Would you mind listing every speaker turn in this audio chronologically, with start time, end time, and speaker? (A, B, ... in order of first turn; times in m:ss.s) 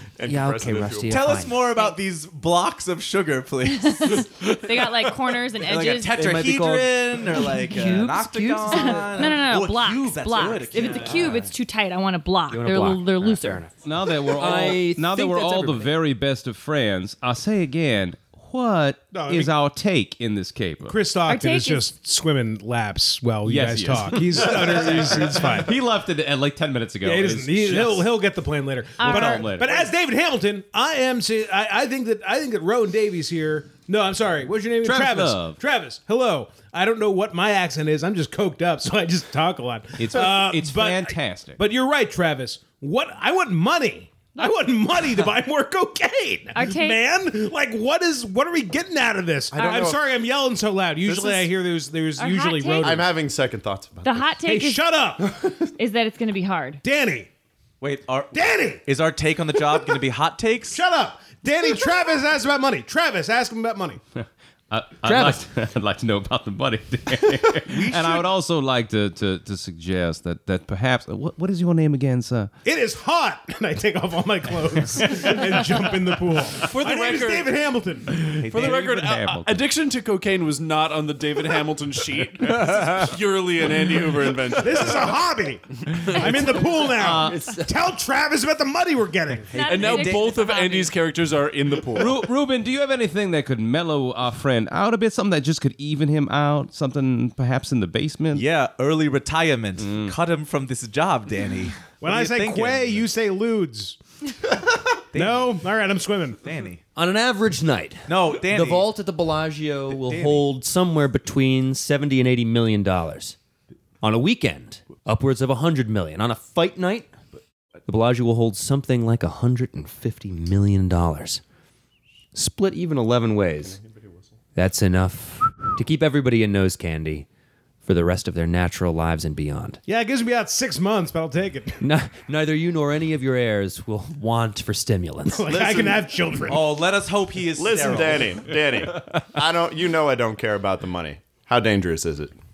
0:00.2-0:01.3 A
0:00.2-0:01.6 B
0:01.1-0:04.7 C
0:03.6-0:06.2 D
0:05.6-0:11.4 C
0:06.1-0:09.4 B
0:08.7-0:13.7 D
0:12.5-0:13.7 B
0:13.8-0:21.0 E
0:14.2-0:16.0 B
0:19.1-0:19.6 F
0:20.8-0:25.8 F
0:21.2-0:21.8 D
0:23.4-0:28.1 E
0:27.0-0:53.1 F
0:29.0-0:29.4 D
0:29.1-0:29.8 E
0:34.8-0:35.6 E
0:40.0-0:41.6 E
0:46.5-0:47.0 D
0:49.5-0:50.0 A
0:51.0-0:51.5 C
0:52.2-0:53.0 D
0:52.8-0:54.3 A
0:54.0-0:54.8 D
0:54.4-0:55.3 F
0:55.8-0:56.8 D
0:56.8-0:57.3 F
0:57.8-1:00.8 C
0:58.3-0:58.8 F
0:59.7-1:00.0 F
1:00.7-1:04.0 F
1:04.2-1:12.5 E
1:05.0-1:05.4 B
1:07.7-1:08.2 C
1:12.6-1:18.2 F
1:16.6-1:25.0 G
1:18.2-1:19.6 E
1:18.5-1:18.8 C
1:24.5-1:29.6 F
1:26.9-1:27.5 E
1:29.5-1:30.3 C
1:29.5-1:30.9 D
1:29.6-1:32.3 G
1:32.0-1:38.4 E
1:38.3-1:43.0 C
1:39.8-1:40.1 E
1:42.0-1:44.0 F
1:45.1-1:45.6 C
1:45.1-1:46.4 F
1:46.4-1:46.8 C
1:47.0-1:53.4 B
1:48.1-1:48.9 C
1:50.0-1:50.4 C
1:54.0-1:57.1 B
1:57.9-2:01.4 B
2:02.3-2:03.8 B
2:03.8-2:04.2 A
2:04.5-2:07.3 B
2:07.8-2:09.8 B
2:09.9-2:11.8 F
2:11.8-2:15.5 B
2:15.2-2:16.8 F
2:15.5-2:16.1 A
2:16.5-2:18.5 C
2:17.5-2:22.3 A